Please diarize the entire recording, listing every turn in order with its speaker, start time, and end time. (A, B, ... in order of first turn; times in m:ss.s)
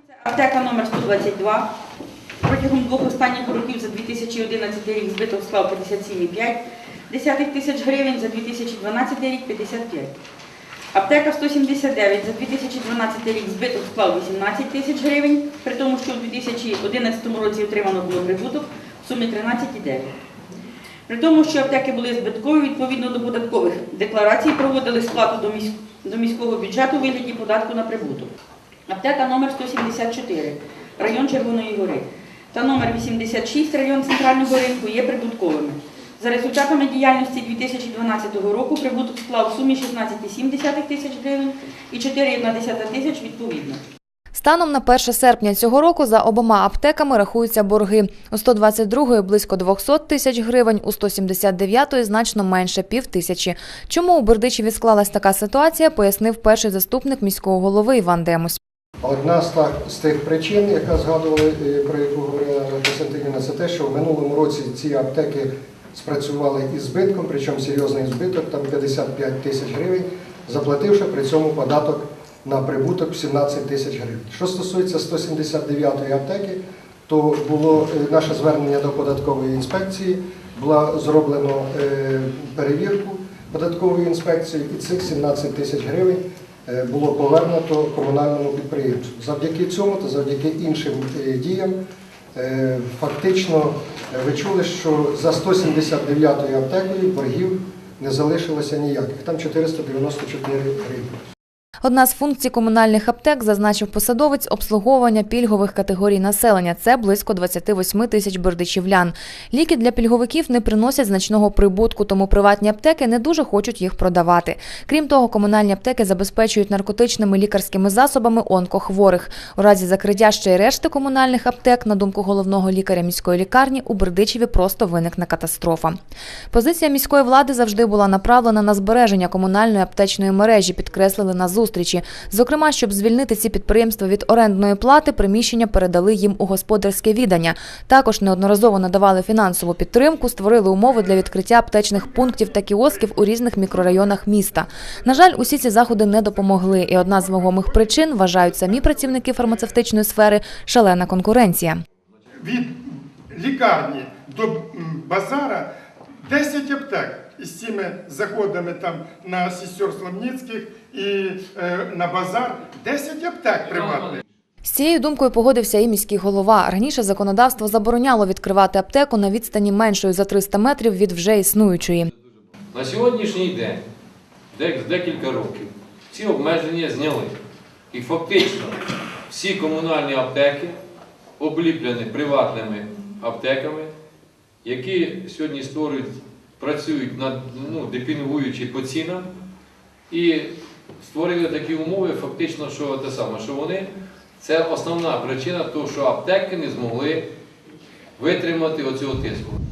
0:00.2-0:01.7 A
0:02.4-0:10.1 A
0:10.9-0:20.1 A
0:21.1-0:28.3 A
0:28.9-0:43.8 A
0:44.3-0:58.6 B
0:59.0-1:31.8 C
1:32.3-1:41.2 C
1:41.8-2:05.9 B
2:06.5-2:31.8 B
2:32.4-2:35.6 D
2:36.2-2:44.2 D
2:43.7-2:44.2 E
2:44.6-2:52.1 B
2:52.7-2:53.8 E
2:54.5-2:57.3 E
2:57.9-2:58.8 E
2:59.3-3:00.8 E
3:01.4-3:03.9 E
3:04.6-3:09.3 E
3:10.1-3:17.2 E
3:18.2-3:19.6 E